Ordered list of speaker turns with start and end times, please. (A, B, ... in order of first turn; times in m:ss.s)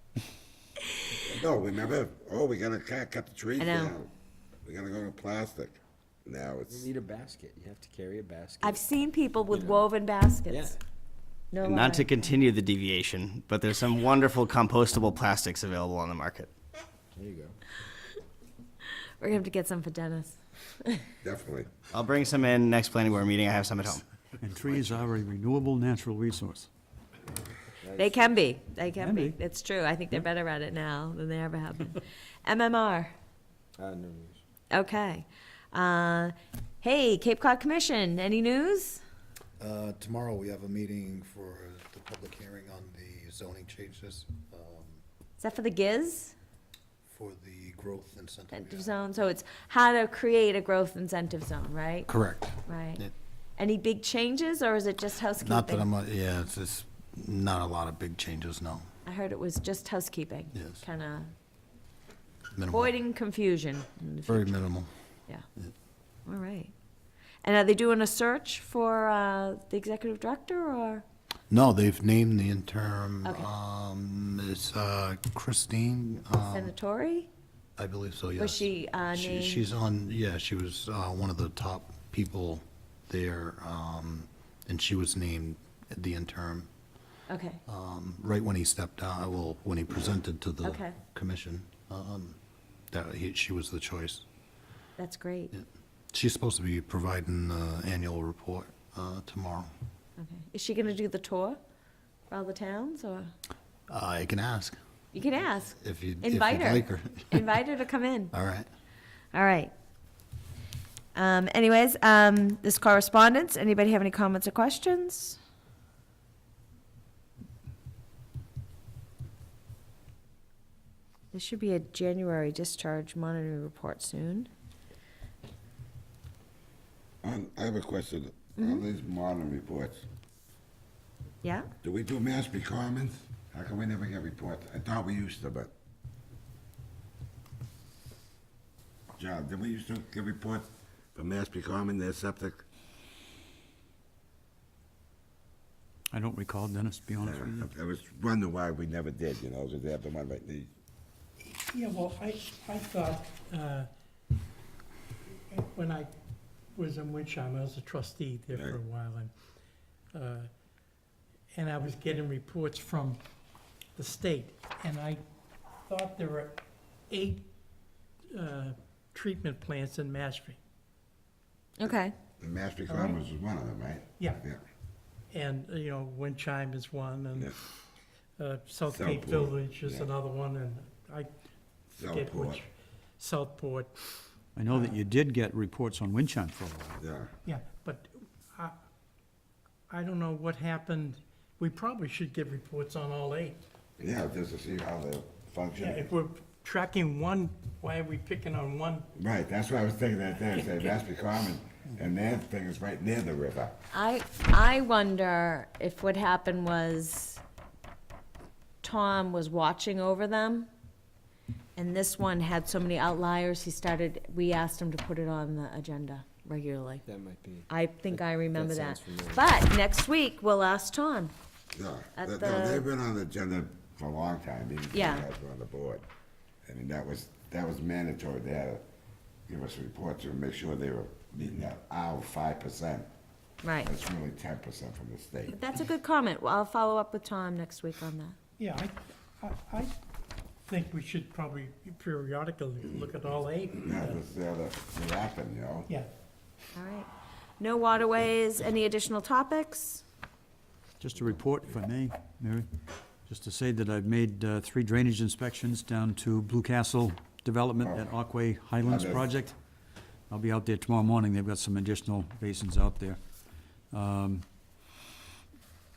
0:01.3-0:04.1 A
0:03.6-0:04.0 B
0:04.6-0:06.9 A
0:06.7-0:08.8 C
0:08.6-0:10.8 B
0:09.5-0:09.9 C
0:10.5-0:10.8 C
0:11.5-0:12.4 B
0:11.6-0:16.5 D
0:17.2-0:17.6 C
0:19.2-0:21.1 B
0:21.2-0:21.7 A
0:21.9-0:24.0 D
0:24.4-0:26.7 E
0:27.8-0:28.4 C
0:28.0-0:33.1 B
0:29.0-0:29.4 E
0:33.8-0:34.4 C
0:34.7-0:39.0 B
0:39.6-0:45.0 F
0:45.4-0:46.4 B
0:47.0-0:49.0 F
0:48.5-0:52.1 B
0:52.1-0:53.1 F
0:52.7-0:53.0 B
0:53.6-0:55.9 B
0:55.4-0:58.9 F
0:59.1-1:01.3 B
1:00.5-1:00.8 F
1:02.5-1:02.9 F
1:02.7-1:04.6 B
1:04.3-1:04.9 F
1:06.3-1:06.7 B
1:07.4-1:11.0 B
1:11.5-1:16.7 F
1:13.2-1:13.5 B
1:16.5-1:17.3 B
1:17.8-1:26.7 F
1:18.4-1:19.7 B
1:27.3-1:27.6 B
1:27.7-1:32.4 F
1:30.6-1:31.0 B
1:32.9-1:34.3 F
1:35.0-1:35.5 B
1:35.5-1:39.7 F
1:40.2-1:41.6 B
1:42.3-1:43.3 B
1:43.9-1:44.8 F
1:45.1-1:48.3 B
1:45.8-1:47.4 F
1:48.3-1:48.7 F
1:49.3-1:49.7 B
1:51.2-1:55.4 B
2:01.3-2:04.5 B
2:07.2-2:10.1 A
2:08.6-2:08.8 B
2:11.4-2:11.7 B
2:11.8-2:15.7 A
2:19.2-2:22.6 A
2:26.1-2:27.7 E
2:27.2-2:30.7 A
2:31.4-2:33.9 G
2:35.5-2:36.1 G
2:36.8-2:39.3 G
2:38.5-2:38.8 A
2:40.1-2:40.5 G
2:41.6-2:43.2 G
2:44.0-2:45.2 G
2:45.8-2:46.6 G
2:47.1-2:47.5 G
2:48.3-2:50.6 G
2:51.8-2:52.1 B
2:51.8-2:54.6 A
2:52.9-2:53.2 G
2:55.3-2:57.5 G
2:58.4-3:01.3 G
2:58.9-3:00.1 A
3:02.0-3:02.6 A
3:02.1-3:02.6 G
3:03.2-3:04.1 G
3:04.6-3:07.0 E
3:07.0-3:07.3 A
3:07.5-3:08.8 G
3:09.9-3:13.6 G
3:14.0-3:16.1 A
3:15.8-3:19.0 G
3:19.2-3:23.8 A
3:23.9-3:27.4 B
3:28.8-3:30.7 B
3:31.8-3:37.0 B
3:37.0-3:39.5 C
3:37.7-3:41.3 B
3:41.7-3:46.0 A
3:42.2-3:42.9 B
3:44.9-3:45.3 B
3:46.7-3:48.8 A
3:49.5-3:53.1 A
3:53.6-3:53.9 B
3:53.8-3:55.5 A
3:55.5-3:58.4 B
3:58.6-3:59.9 G
4:00.7-4:04.2 G
4:03.7-4:05.9 A
4:06.8-4:10.0 B
4:11.0-4:12.7 E
4:13.3-4:19.6 E
4:18.8-4:19.3 A
4:20.3-4:23.2 E
4:23.9-4:24.4 E